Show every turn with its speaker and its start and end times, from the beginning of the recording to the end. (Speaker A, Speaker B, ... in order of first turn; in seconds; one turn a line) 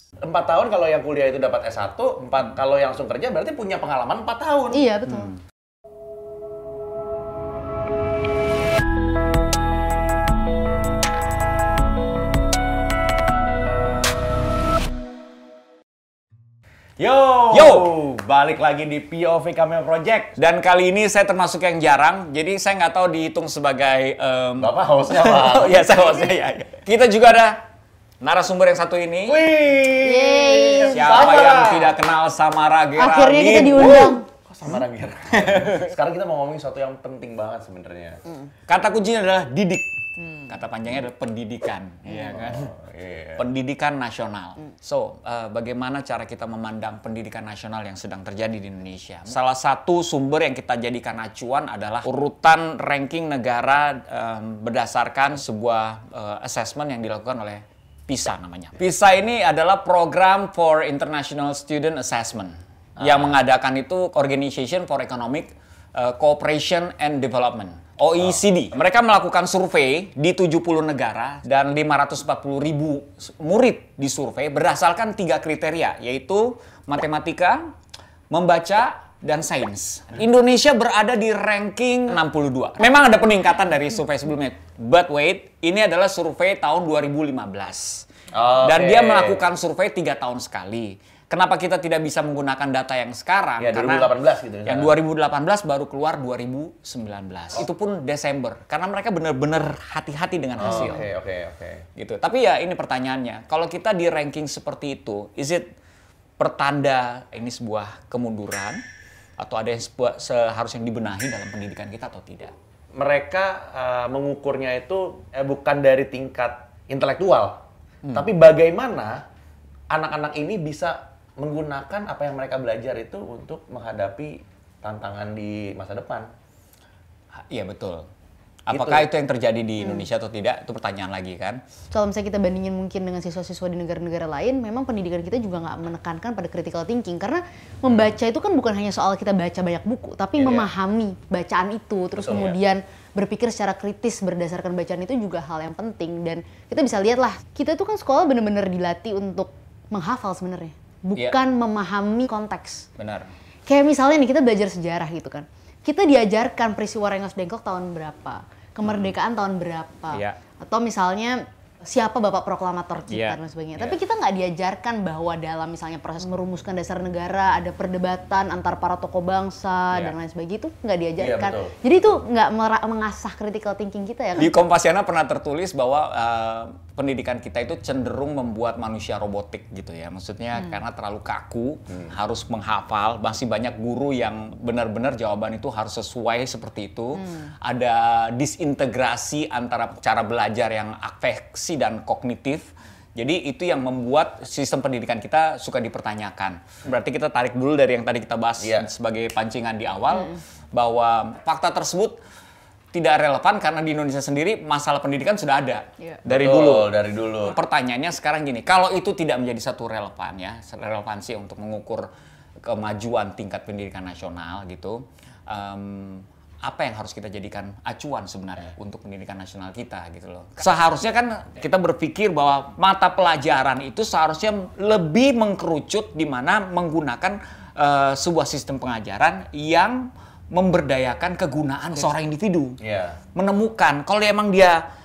Speaker A: 0.2-4.8
Speaker B: 4.7-5.3
Speaker C: 5.1-5.4
Speaker A: 17.0-20.4
Speaker C: 17.5-17.9
Speaker C: 20.4-27.6
Speaker A: 24.6-26.3
Speaker C: 28.2-29.4
Speaker A: 29.2-32.0
Speaker B: 30.0-31.2
Speaker C: 30.9-34.8
Speaker B: 33.0-34.2
Speaker A: 33.9-38.2
Speaker C: 35.3-35.9
Speaker C: 38.7-39.9
Speaker B: 40.2-40.5
Speaker C: 40.5-42.7
Speaker A: 42.3-43.4
Speaker C: 43.4-77.7
Speaker A: 63.0-63.4
Speaker C: 78.3-88.1
Speaker A: 88.3-89.4
Speaker C: 88.6-94.1
Speaker A: 93.6-94.9
Speaker C: 94.7-101.1
Speaker A: 100.6-101.8
Speaker C: 102.0-105.7
Speaker C: 106.4-108.8
Speaker C: 109.4-112.5
Speaker A: 112.9-117.6
Speaker A: 118.1-119.2
Speaker A: 119.9-126.2
Speaker C: 127.5-128.1
Speaker C: 128.7-131.6
Speaker A: 128.7-129.1
Speaker B: 129.8-130.1
Speaker B: 131.9-152.9
Speaker A: 140.4-140.7
Speaker A: 142.1-142.6
Speaker C: 153.0-153.3
Speaker B: 153.7-174.5
Speaker C: 158.8-159.1
Speaker C: 163.1-163.9
Speaker A: 171.2-171.8
Speaker C: 174.4-202.2
Speaker B: 187.2-187.5
Speaker A: 198.6-198.9
Speaker C: 202.9-212.1
Speaker A: 206.2-207.6
Speaker C: 212.6-232.8
Speaker A: 232.8-233.2
Speaker C: 233.3-234.8